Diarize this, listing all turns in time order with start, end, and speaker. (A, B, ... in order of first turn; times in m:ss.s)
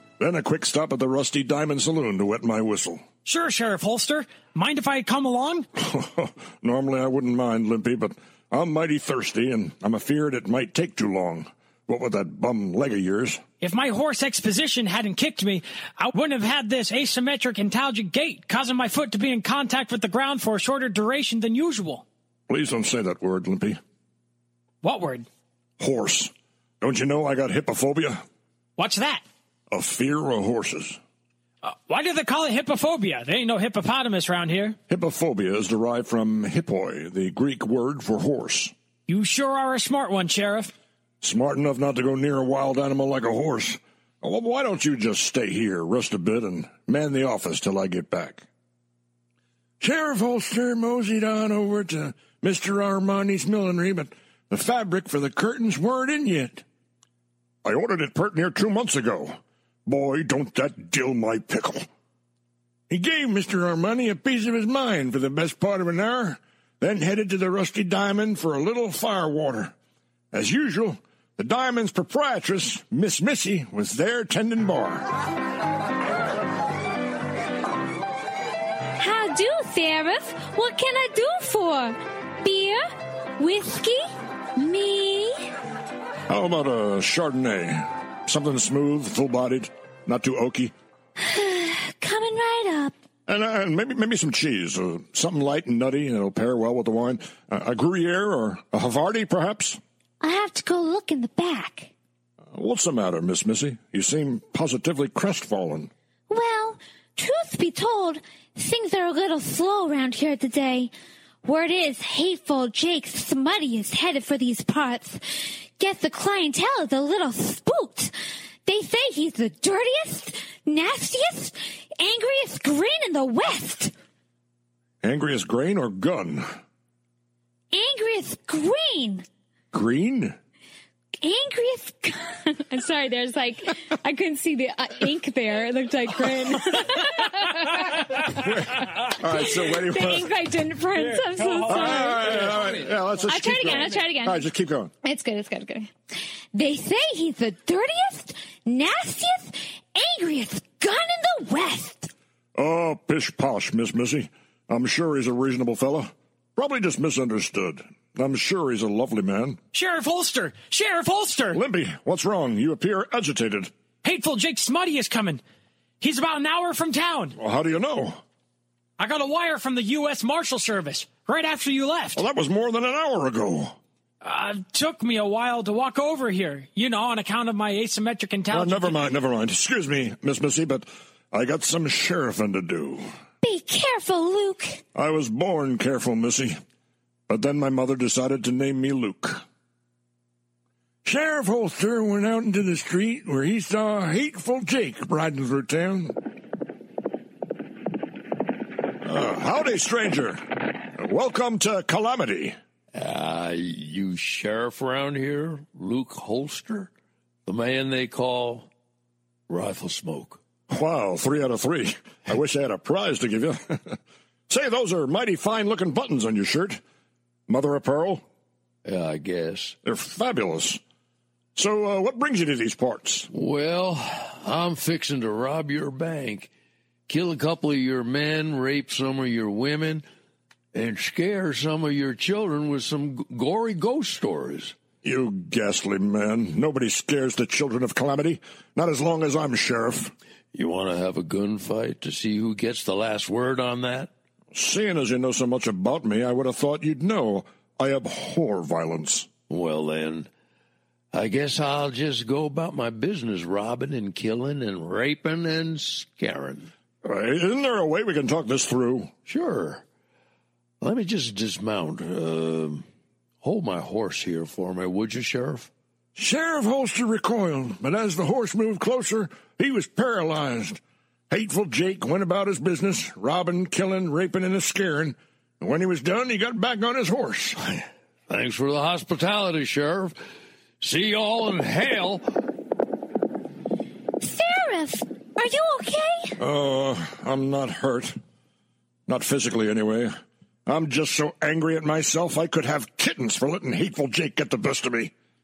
0:00.2-0:03.0 A
0:03.2-0:05.6 B
0:05.8-0:13.4 A
0:13.6-0:22.0 B
0:22.5-0:23.8 A
0:24.8-0:25.3 B
0:25.8-0:28.2 A
0:28.8-0:29.2 B
0:29.7-0:31.0 A
0:31.6-0:34.8 B
0:34.9-0:38.7 A
0:39.1-0:40.7 B
0:41.2-0:48.5 A
0:49.8-0:56.6 C
0:57.6-1:01.9 A
1:02.9-1:09.5 C
1:10.3-1:15.0 A
1:19.0-1:25.5 D
1:26.3-1:30.7 A
1:31.2-1:33.0 D
1:33.2-1:39.8 A
1:40.2-1:41.9 D
1:42.5-1:45.9 A
1:46.3-1:50.9 D
1:51.4-1:58.1 D
1:58.6-2:03.9 D
2:05.0-2:06.4 A
2:07.7-2:09.3 D
2:09.7-2:10.4 A
2:11.2-2:24.5 D
2:18.4-2:20.3 A
2:21.6-2:24.9 A
2:25.0-2:25.9 D
2:26.5-2:32.1 D
2:32.5-2:39.6 A
2:39.7-2:41.6 B
2:41.5-2:43.7 A
2:44.0-2:45.4 B
2:46.0-2:47.4 B
2:47.4-2:48.2 A
2:49.0-2:52.2 B
2:52.1-2:53.8 A
2:54.2-2:59.0 B
2:58.5-3:03.1 A
3:03.4-3:04.8 D
3:04.9-3:06.6 A
3:07.3-3:09.4 A
3:11.0-3:16.1 C
3:19.0-3:22.6 A
3:22.9-3:26.9 E
3:27.4-3:28.7 E
3:29.5-3:30.4 E
3:30.7-3:36.8 A
3:37.5-3:38.2 A
3:38.8-3:39.8 E
3:39.8-3:40.8 A
3:41.5-3:43.3 A
3:43.3-3:46.5 E
3:47.1-3:50.0 E
3:50.7-3:54.8 E
3:55.0-4:00.1 A
4:00.5-4:04.1 E
4:04.5-4:09.3 A
4:09.5-4:10.3 E
4:11.1-4:16.7 E
4:17.0-4:19.1 A
4:19.2-4:19.8 E
4:20.8-4:22.9 E
4:23.4-4:25.7 E
4:26.2-4:30.8 C
4:31.3-4:35.2 C
4:31.4-4:32.5 A
4:35.8-4:36.4 C
4:36.4-4:37.0 A
4:37.0-4:37.5 C
4:38.3-4:40.2 E
4:40.8-4:42.3 E
4:44.2-4:46.4 D
4:46.4-4:48.2 A
4:49.1-4:50.1 A
4:50.6-4:55.1 A